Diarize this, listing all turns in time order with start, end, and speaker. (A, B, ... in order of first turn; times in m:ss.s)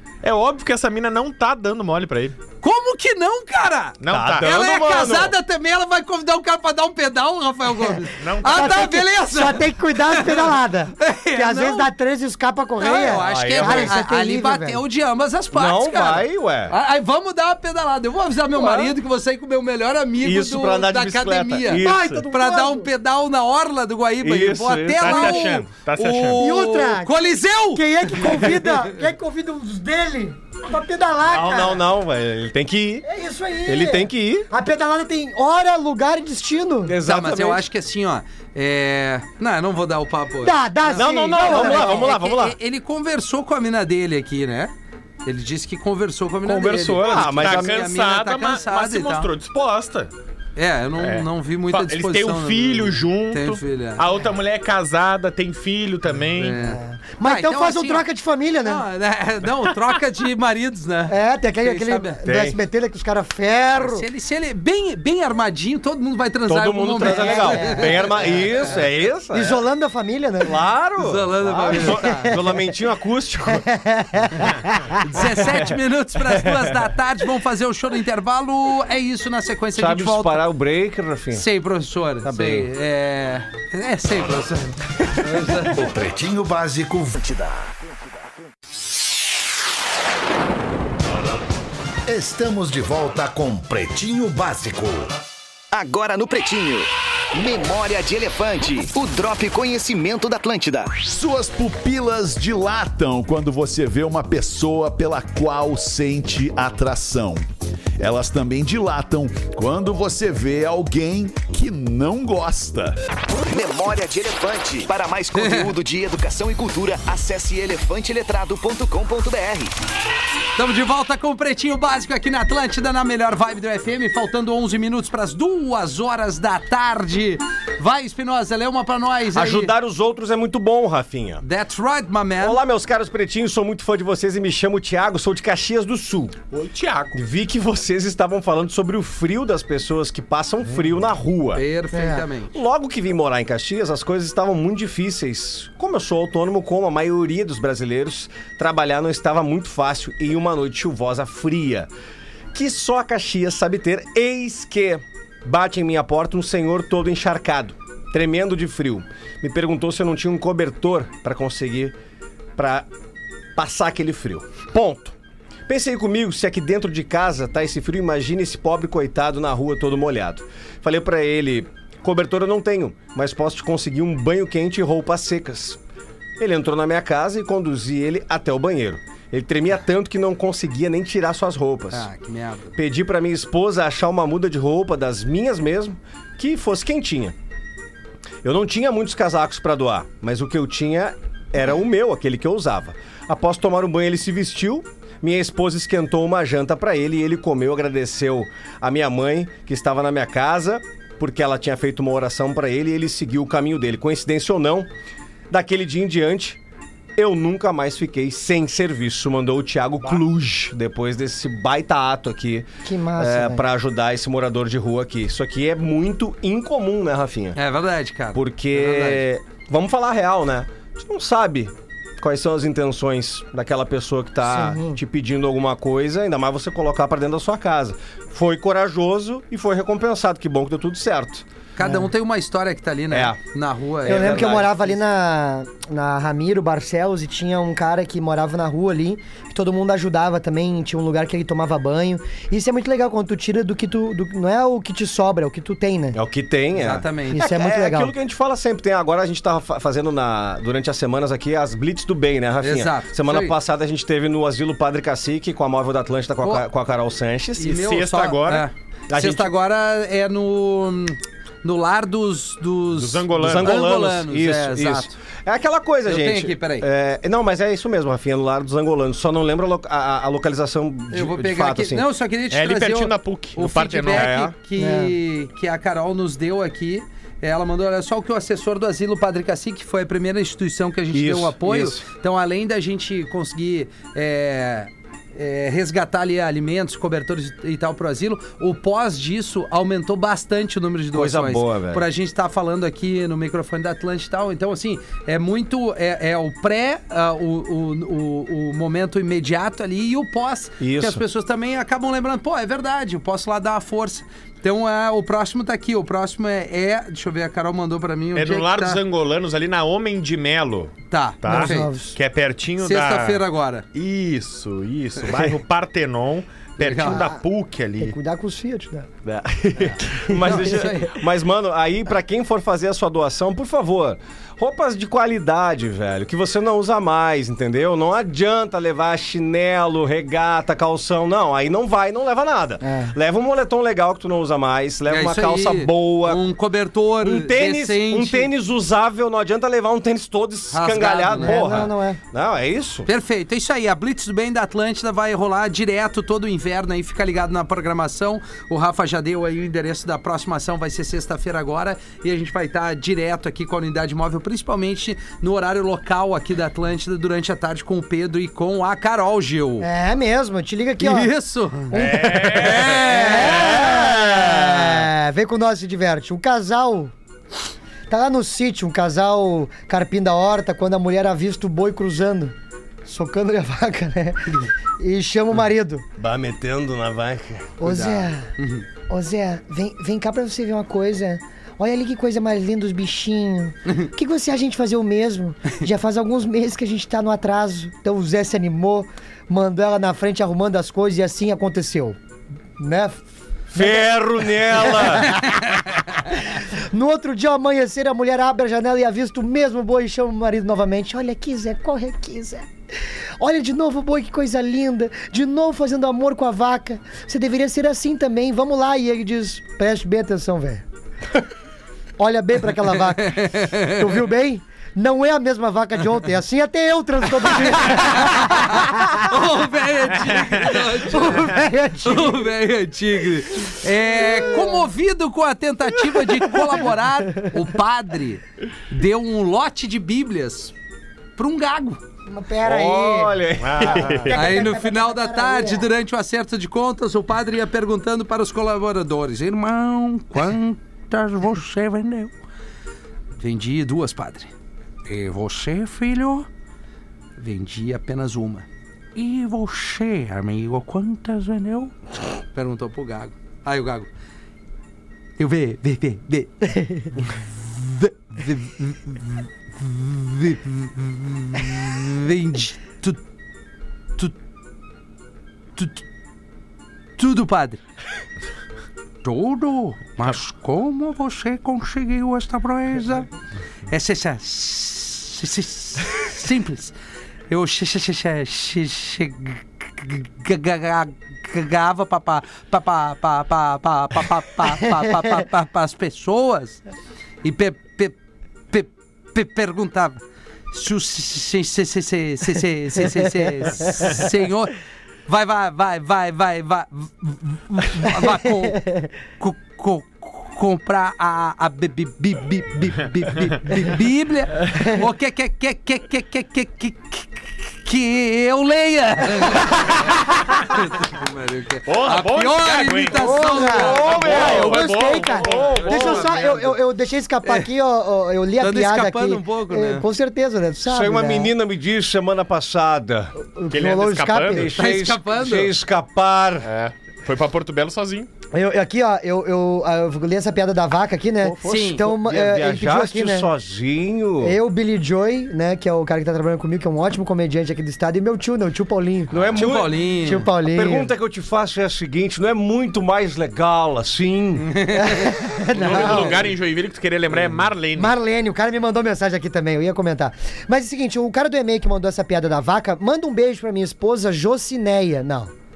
0:00.2-0:02.4 A
0:02.6-0:11.9 B
0:04.0-0:04.5 A
0:04.1-0:05.3 C
0:08.2-0:08.9 A
0:08.4-0:14.8 D
0:12.8-0:28.8 B
0:13.1-0:14.0 C
0:15.5-0:16.7 C
0:18.6-0:18.9 C
0:20.2-0:22.3 C
0:21.7-0:22.9 D
0:24.2-0:25.4 C
0:25.0-0:26.4 A
0:26.4-0:27.1 D
0:27.7-0:31.8 D
0:31.3-0:33.1 C
0:33.1-0:37.0 D
0:33.6-0:34.5 C
0:36.8-0:37.6 C
0:37.0-0:44.7 B
0:40.4-0:42.0 D
0:40.9-0:42.6 C
0:45.2-0:49.3 B
0:46.4-0:47.9 C
0:47.0-0:50.1 A
0:50.6-0:54.1 B
0:51.0-0:56.6 A
0:56.4-0:58.0 B
0:56.6-0:58.8 D
0:58.6-1:02.2 B
1:01.1-1:04.1 D
1:02.2-1:02.6 C
1:03.8-1:08.5 B
1:06.5-1:09.6 C
1:07.0-1:08.1 D
1:09.3-1:10.6 D
1:10.4-1:13.7 C
1:11.0-1:12.4 B
1:11.8-1:12.4 D
1:13.5-1:15.0 D
1:15.0-1:20.5 B
1:15.2-1:15.6 C
1:16.3-1:16.7 C
1:19.8-1:21.4 C
1:21.3-1:25.8 B
1:22.2-1:22.7 C
1:25.6-1:27.2 E
1:27.2-1:28.1 F
1:32.1-1:35.2 E
1:35.7-1:41.0 F
1:41.0-1:47.5 E
1:48.0-1:53.0 E
1:53.4-1:59.8 F
1:55.3-1:55.7 B
2:00.6-2:09.7 B
2:09.3-2:11.4 C
2:11.4-2:12.6 B
2:12.4-2:16.4 C
2:16.5-2:17.2 A
2:17.1-2:21.6 C
2:21.5-2:22.6 B
2:21.9-2:22.2 D
2:22.5-2:31.9 C
2:32.5-2:42.0 C
2:42.6-2:42.9 C
2:43.6-2:45.2 C
2:45.7-2:55.8 C
2:56.4-3:02.1 C
3:01.9-3:02.8 B
3:02.8-3:07.4 C
3:08.4-3:24.9 C
3:25.5-3:26.6 C
3:27.2-3:37.6 C
3:32.8-3:33.7 D
3:37.6-3:39.2 B
3:38.3-3:51.4 C
3:44.4-3:45.0 D
3:51.8-3:55.0 B
3:51.8-3:52.1 D
3:53.1-3:53.4 C
3:54.0-3:54.7 C
3:54.0-4:06.2 D
4:06.1-4:17.9 C
4:06.7-4:07.4 B
4:07.3-4:08.1 D
4:12.6-4:13.6 B
4:17.6-4:25.1 B
4:17.7-4:18.7 A
4:19.1-4:19.5 C
4:22.9-4:23.8 A
4:23.3-4:32.1 C
4:26.0-4:26.9 B
4:31.1-5:09.0 B
4:32.5-4:34.4 A
4:34.1-4:34.6 C
4:34.8-4:35.1 D
4:41.1-4:42.0 C
4:51.1-4:52.0 C
5:00.8-5:01.2 C
5:08.3-5:18.2 A
5:11.1-5:11.9 B
5:11.5-5:12.1 D
5:12.8-5:13.8 B
5:16.8-5:17.3 B
5:17.0-5:17.4 D
5:18.0-5:19.1 D
5:19.2-5:36.4 C
5:19.8-5:21.1 B
5:20.3-5:21.1 D
5:32.8-5:33.1 D
5:35.1-5:38.5 B
5:37.2-5:43.1 C
5:40.7-5:41.8 B
5:41.4-5:42.2 D
5:43.1-5:59.9 B
5:59.8-6:01.3 D
6:01.0-6:03.8 B
6:01.9-6:07.1 D
6:01.9-6:04.5 A
6:08.1-6:16.0 D
6:16.2-6:17.8 C
6:17.8-6:18.5 D
6:17.8-6:18.9 B
6:19.1-6:32.2 D
6:32.8-6:34.1 D
6:33.7-6:35.4 C
6:34.7-6:42.7 D
6:43.4-6:50.8 D
6:52.2-6:59.3 D
6:53.2-6:54.0 B
6:57.8-7:10.7 B
7:00.3-7:02.5 D
7:04.2-7:04.9 D
7:11.4-7:12.0 B
7:12.3-7:13.4 D
7:12.6-7:14.6 C
7:13.6-7:14.3 A
7:13.9-7:15.9 D
7:14.3-7:22.3 B
7:23.4-7:24.5 B
7:25.0-7:26.5 B
7:27.4-7:32.0 B
7:32.5-7:34.1 B
7:35.4-7:43.2 B
7:45.8-7:46.0 B
7:47.2-7:47.8 B
7:49.2-7:53.3 B
7:53.9-7:57.0 B
7:57.5-8:06.8 B
8:07.4-8:08.2 B
8:08.7-8:10.2 B
8:10.7-8:14.7 B
8:13.7-8:14.1 D
8:15.3-8:18.8 B
8:18.8-8:19.1 D
8:19.4-8:34.4 B
8:31.9-8:36.2 A
8:33.1-8:41.5 D
8:33.6-8:36.5 C
8:35.7-8:36.8 B
8:38.6-8:40.1 B
8:40.8-8:43.3 C
8:43.4-8:44.7 D
8:43.7-8:44.7 A
8:44.5-8:46.7 C
8:44.8-8:45.7 B
8:46.6-8:48.3 A
8:48.5-8:53.5 D
8:51.4-8:54.6 C
8:51.6-8:52.0 B
8:54.4-8:59.4 D
8:59.3-9:04.9 C
8:59.6-9:00.5 B
9:00.2-9:01.1 D
9:04.6-9:06.4 B
9:05.0-9:06.5 D
9:05.7-9:08.1 A
9:05.9-9:06.3 C
9:08.0-9:15.5 D